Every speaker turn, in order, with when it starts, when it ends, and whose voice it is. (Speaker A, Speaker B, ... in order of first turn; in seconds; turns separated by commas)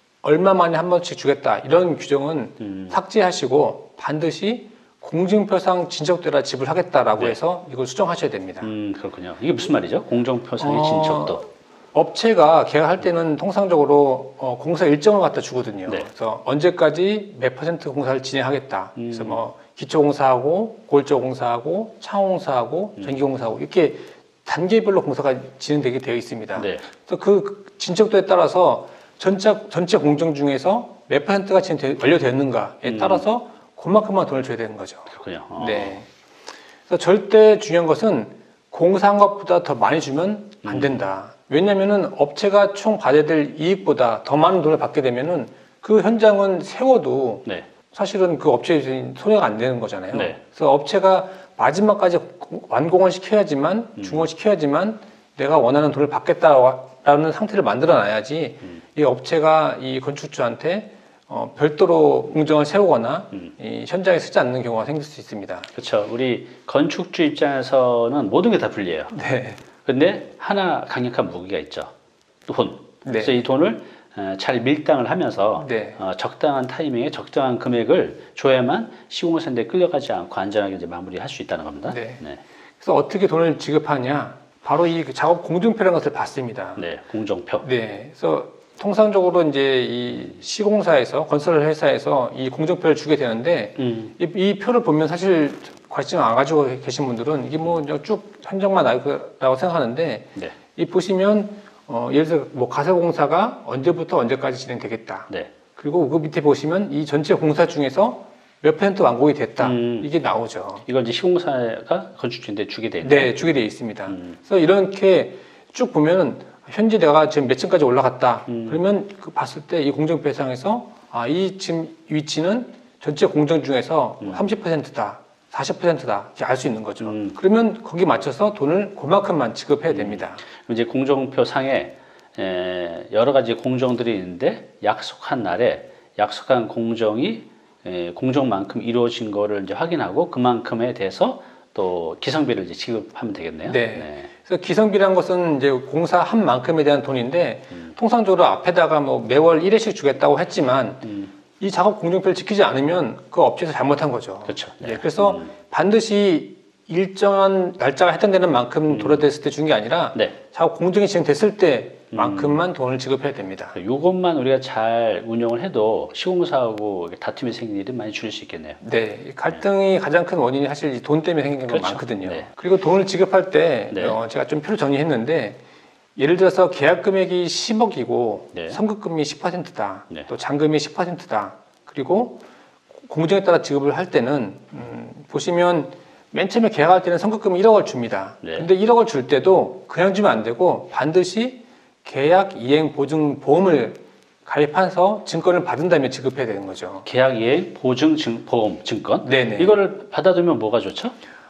Speaker A: 0.2-8.7, Speaker B: 2.6-3.0, Speaker B: 8.6-11.4, Speaker A: 10.6-36.1, Speaker B: 19.0-19.4, Speaker B: 26.5-26.9, Speaker B: 32.9-33.2, Speaker B: 35.1-36.0, Speaker A: 36.9-65.7, Speaker B: 40.6-41.0, Speaker B: 50.1-50.4, Speaker B: 54.0-54.3, Speaker B: 65.7-69.2, Speaker A: 69.1-69.6, Speaker B: 69.8-71.9, Speaker B: 72.5-82.4, Speaker A: 73.0-73.4, Speaker A: 75.6-76.0, Speaker A: 81.9-82.2, Speaker A: 82.8-86.8, Speaker B: 86.8-87.7, Speaker A: 87.6-110.8, Speaker B: 93.8-94.1, Speaker B: 109.6-110.1, Speaker B: 110.8-114.3, Speaker A: 113.0-130.4, Speaker B: 118.5-118.8, Speaker B: 124.2-124.5, Speaker B: 127.0-127.4, Speaker B: 129.9-144.3, Speaker A: 143.7-151.1, Speaker B: 151.0-151.3, Speaker A: 151.6-163.8, Speaker B: 154.4-155.5, Speaker B: 158.9-159.3, Speaker B: 162.1-162.6, Speaker B: 163.7-168.8, Speaker A: 168.8-175.6, Speaker B: 171.7-172.5, Speaker B: 173.9-174.2, Speaker A: 176.2-182.4, Speaker B: 178.5-178.8, Speaker A: 183.0-197.1, Speaker B: 188.4-188.7, Speaker B: 197.0-201.2, Speaker A: 199.2-199.8